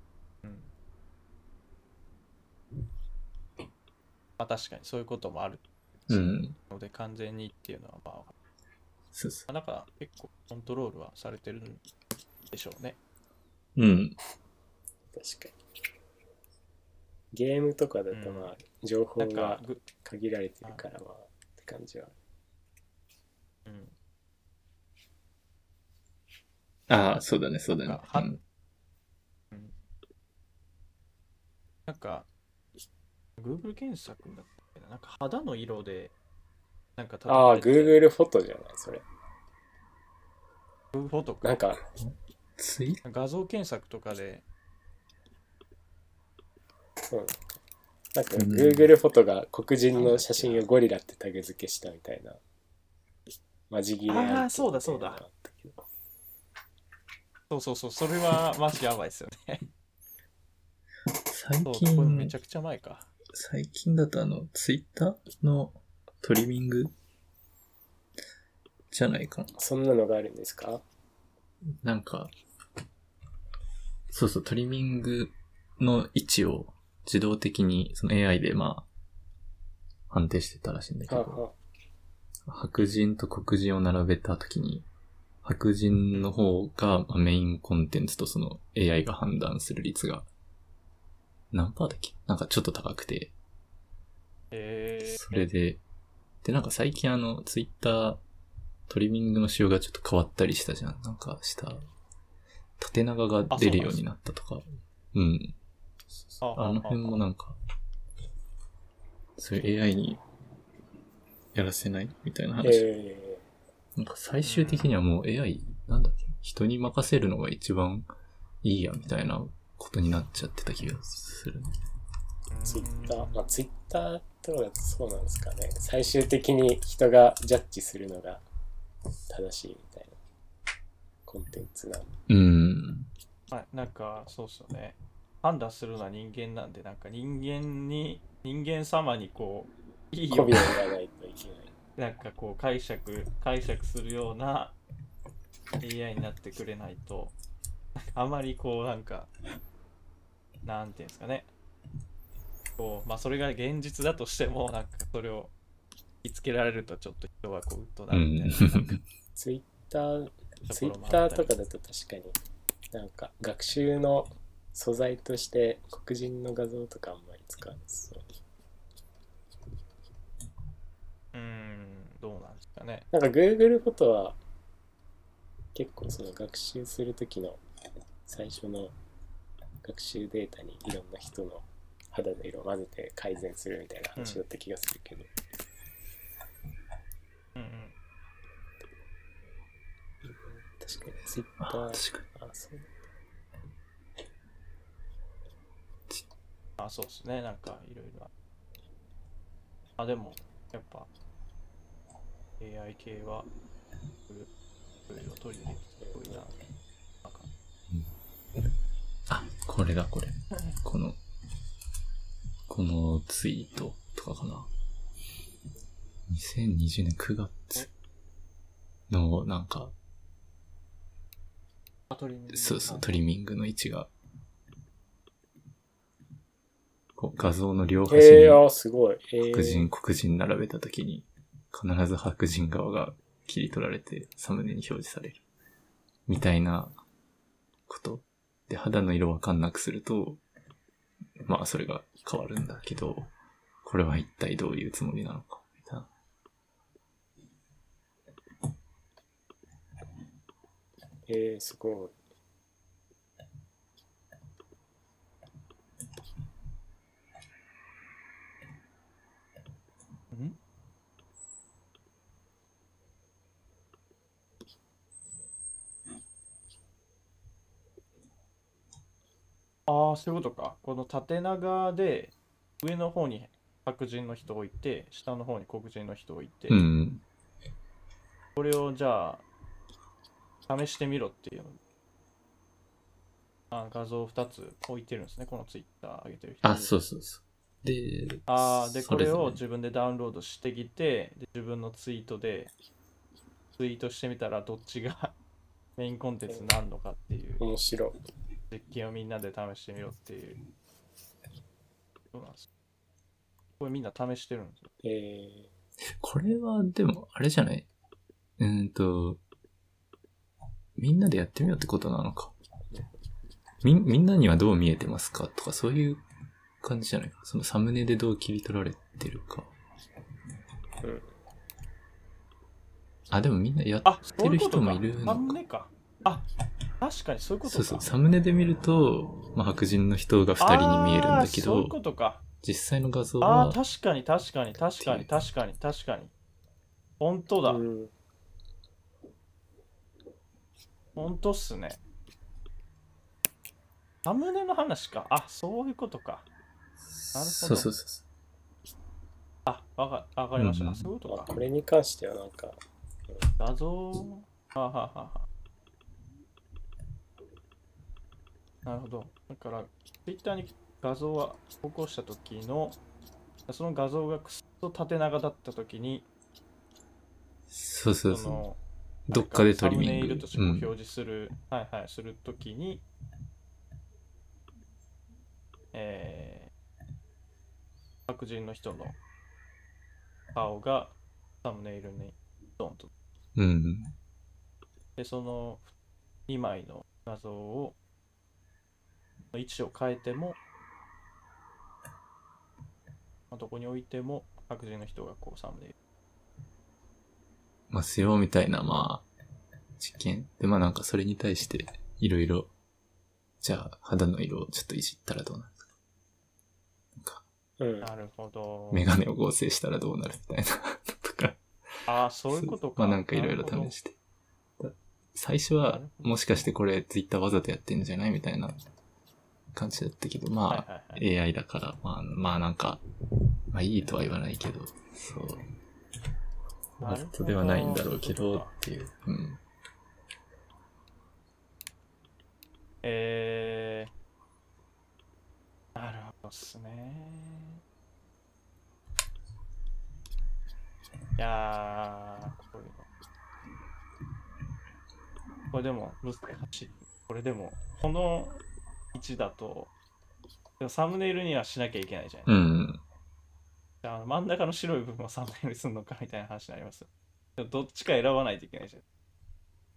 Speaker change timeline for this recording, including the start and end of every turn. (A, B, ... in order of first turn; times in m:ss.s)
0:00.4-0:00.7 A
0:04.4-0:08.3 A
0:06.1-0:06.6 B
0:09.1-0:09.5 B
0:09.5-0:11.8 A
0:12.5-0:13.0 A
0:13.8-0:14.2 B
0:15.1-0:15.6 C
0:17.3-0:22.2 C
0:18.1-0:18.6 A
0:19.2-0:19.8 A
0:23.7-0:23.9 A
0:26.9-0:28.4 B
0:27.7-0:28.4 A
0:31.9-0:32.3 A
0:33.4-0:36.1 A
0:37.0-0:38.0 A
0:37.3-0:39.0 C
0:40.9-0:41.6 A
0:41.4-0:41.8 C
0:42.0-0:43.0 B
0:43.0-0:44.4 A
0:47.1-0:47.6 C
0:48.1-0:52.4 C
0:48.4-0:48.9 B
0:50.0-0:50.7 A
0:53.7-0:55.8 C
0:54.1-0:55.2 A
0:57.5-0:59.7 A
1:01.3-1:02.3 B
1:01.6-1:03.1 A
1:03.3-1:06.9 B
1:08.9-1:09.5 B
1:09.6-1:10.8 C
1:11.8-1:12.3 B
1:14.1-1:18.9 B
1:20.1-1:21.4 B
1:21.1-1:21.6 C
1:22.5-1:24.9 B
1:25.4-1:30.3 B
1:31.5-1:33.3 B
1:34.5-1:35.5 A
1:35.0-1:35.8 B
1:36.4-1:38.2 B
1:38.9-1:41.9 B
1:42.8-1:45.6 B
1:43.5-1:44.0 A
1:46.4-1:47.2 A
1:46.6-1:47.6 B
1:49.4-1:50.2 B
1:51.6-1:52.8 B
1:52.6-1:53.4 C
1:54.0-1:58.1 B
1:54.4-1:55.0 A
1:58.6-2:01.7 B
2:02.5-2:03.4 A
2:02.7-2:08.4 C
2:09.3-2:10.2 C
2:11.3-2:12.1 C
2:12.3-2:13.1 B
2:13.5-2:20.7 A
2:20.3-2:21.7 C
2:22.0-2:24.8 A
2:25.8-2:27.4 A
2:28.0-2:29.3 A
2:30.6-2:31.5 A
2:32.8-2:35.5 A
2:36.2-2:39.0 A
2:38.1-2:39.0 B
2:39.4-2:42.4 C
2:40.7-2:41.5 A
2:42.9-2:48.3 C
2:51.3-2:53.1 A
2:53.1-2:54.4 C
2:55.7-2:57.6 C
2:58.3-2:59.0 C
2:59.8-3:05.3 C
3:04.2-3:04.4 A
3:07.6-3:08.0 A
3:10.2-3:12.9 C
3:11.6-3:12.3 B
3:16.8-3:18.3 A
3:20.0-3:21.1 A
3:22.6-3:23.5 A
3:25.1-3:26.6 A
3:26.0-3:26.4 C
3:27.2-3:27.5 A
3:29.3-3:31.2 B
3:32.7-3:34.7 B
3:36.3-3:37.9 B
3:39.1-3:39.9 B
3:42.1-3:43.1 A
3:42.5-3:44.1 B
3:47.2-3:48.6 B
3:48.1-3:49.9 C
3:49.4-3:55.4 B
3:56.3-3:57.0 B
3:57.9-4:00.4 B
4:01.4-4:03.3 B
4:03.8-4:06.1 B
4:11.3-4:12.2 C
4:20.3-4:20.6 A
4:29.9-4:36.8 A
4:36.7-4:37.2 B
4:38.6-4:39.4 A
4:40.7-4:41.8 A
4:43.7-4:46.9 A
4:46.6-4:49.6 B
4:48.5-4:52.7 A
4:53.8-4:55.3 A
4:56.0-4:57.6 A
4:57.6-4:58.2 C
4:58.7-5:00.6 A
5:02.3-5:02.7 A
5:03.8-5:04.9 A
5:05.0-5:05.7 C
5:06.2-5:07.9 B
5:08.6-5:09.4 B
5:11.0-5:12.5 B
5:13.8-5:16.2 B
5:16.8-5:19.7 B
5:21.0-5:21.3 C
5:23.3-5:25.6 B
5:24.0-5:26.4 A
5:27.0-5:28.0 A
5:27.7-5:32.0 B
5:30.6-5:32.4 A
5:32.6-5:33.8 B
5:33.4-5:36.3 A
5:35.0-5:35.3 B
5:37.2-5:37.8 A
5:37.6-5:38.1 C
5:41.2-5:42.0 A
5:44.2-5:46.4 A
5:47.0-5:48.2 B
5:47.3-5:47.9 A
5:49.7-5:51.5 A
5:50.6-5:51.1 B
5:51.3-5:53.4 C
5:53.6-5:55.5 A
5:58.8-6:03.0 A
6:03.7-6:06.3 A
6:07.7-6:08.6 B
6:08.3-6:08.8 A
6:09.3-6:10.9 B
6:09.3-6:13.0 A
6:15.9-6:16.7 A
6:18.3-6:19.2 A
6:20.6-6:23.1 A
6:23.6-6:24.1 B
6:25.2-6:25.9 A
6:26.5-6:28.0 A
6:29.5-6:30.6 A
6:33.5-6:36.0 A
6:37.9-6:39.3 B
6:40.0-6:42.7 B
6:43.6-6:45.9 B
6:47.2-6:47.4 B
6:47.8-6:48.1 C
6:48.0-6:49.1 A
6:48.9-6:51.6 B
6:52.0-6:54.0 A
6:52.5-6:54.2 B
6:54.8-6:58.8 B
6:55.8-6:56.6 A
6:59.7-7:03.0 B
7:00.7-7:01.2 A
7:03.7-7:05.7 B
7:07.0-7:09.6 B
7:07.0-7:08.7 A
7:13.0-7:14.1 A
7:16.0-7:17.8 A
7:21.4-7:23.0 A
7:25.7-7:28.6 A
7:29.1-7:29.9 A
7:30.8-7:32.5 A
7:32.5-7:33.0 B
7:34.0-7:39.0 A